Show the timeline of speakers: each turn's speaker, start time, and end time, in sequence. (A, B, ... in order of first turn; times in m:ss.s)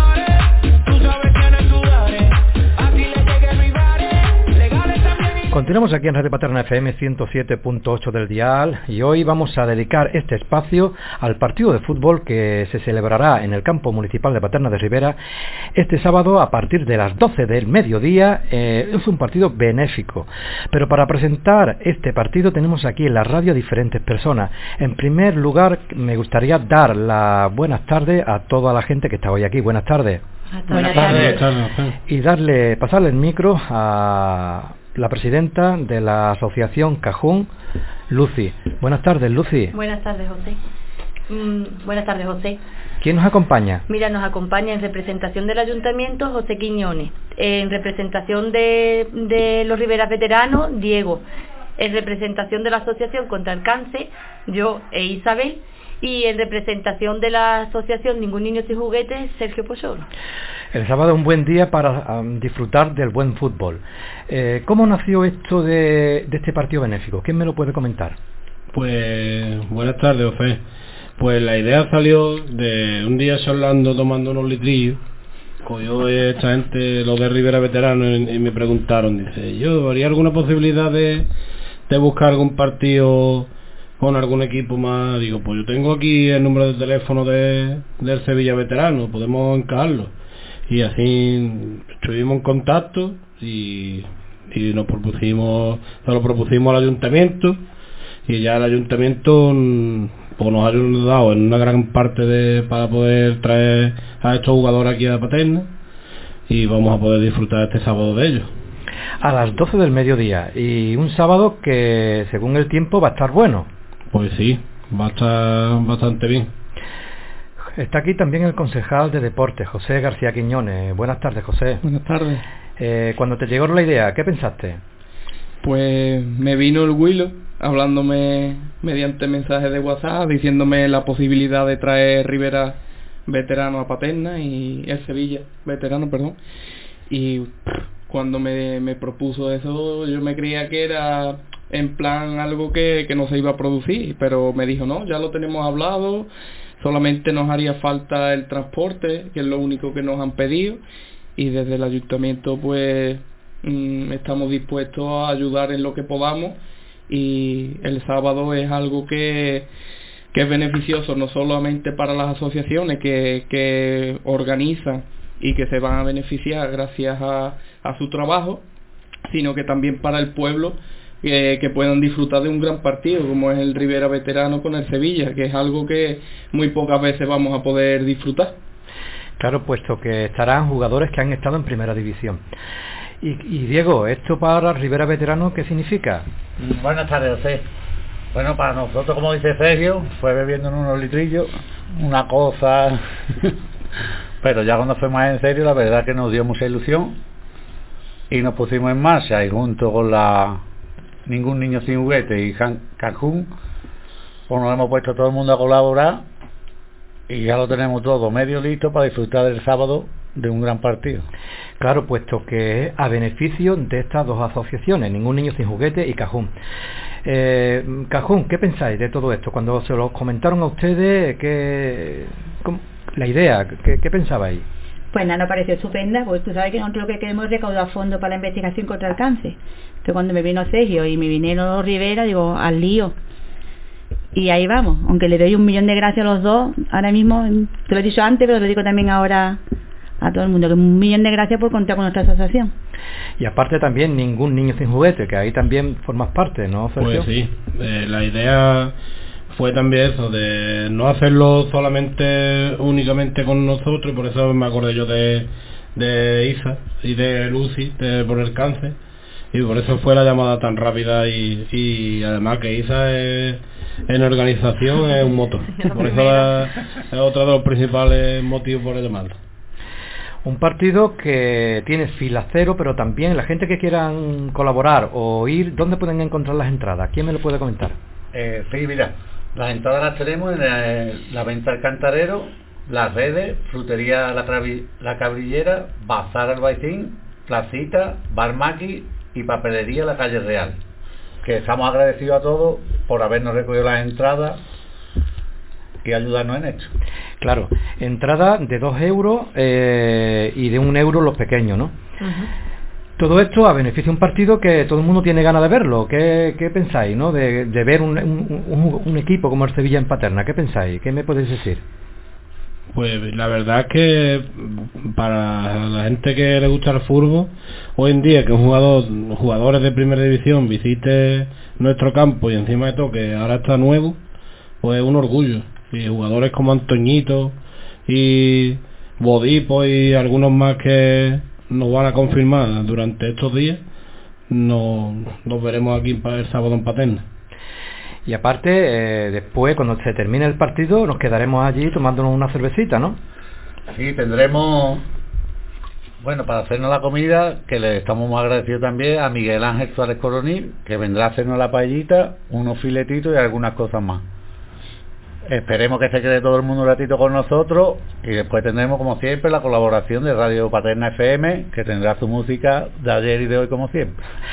0:05.5-0:15.2 A
0:15.8-0:30.2 A
0:30.5-0:31.4 B
0:30.7-0:31.8 C
0:32.1-0:37.5 A
0:38.1-0:39.7 A
0:39.7-0:40.6 B
0:41.3-0:42.6 B
0:43.0-0:43.8 A
0:43.9-0:51.2 B
0:51.8-1:00.0 B
1:00.7-1:08.2 A
1:08.7-1:10.6 C
1:11.2-1:14.9 C
1:15.6-1:21.2 C
1:21.9-1:23.4 C
1:24.0-1:30.1 C
1:30.7-1:34.0 C
1:34.5-1:37.5 C
1:38.3-1:45.6 C
1:46.5-1:48.4 C
1:49.2-1:53.7 A
1:54.1-1:56.4 C
1:57.8-2:01.8 A
2:01.8-2:02.4 D
2:02.8-2:04.8 A
2:05.6-2:16.4 D
2:17.1-2:30.8 D
2:31.4-2:36.6 D
2:37.1-2:39.7 D
2:40.3-2:48.6 D
2:49.3-2:58.5 D
2:59.4-3:02.4 A
3:03.2-3:06.2 A
3:06.6-3:07.6 E
3:08.3-3:13.5 E
3:14.4-3:17.2 E
3:18.3-3:20.6 E
3:21.3-3:23.5 E
3:24.5-3:26.2 E
3:27.3-3:31.2 E
3:31.8-3:36.5 A
3:37.2-3:44.6 A
3:45.1-3:53.1 F
3:54.3-3:59.6 F
4:00.2-4:02.7 F
4:03.4-4:07.3 A
4:07.0-4:08.9 C
4:09.5-4:15.4 C
4:16.0-4:18.9 C
4:19.5-4:23.6 C
4:24.1-4:29.3 C
4:30.4-4:37.9 A
4:38.3-4:50.8 E
4:51.4-4:54.6 E
4:56.0-4:56.9 E
4:57.4-5:01.9 A
5:03.2-5:11.8 A
5:13.0-5:14.5 C
5:15.2-5:17.5 C
5:18.0-5:24.1 C
5:24.8-5:27.5 C
5:28.1-5:33.8 C
5:34.5-5:37.2 C
5:38.2-5:43.2 A
5:43.9-5:45.0 E
5:46.2-5:54.2 E
5:55.4-6:04.1 E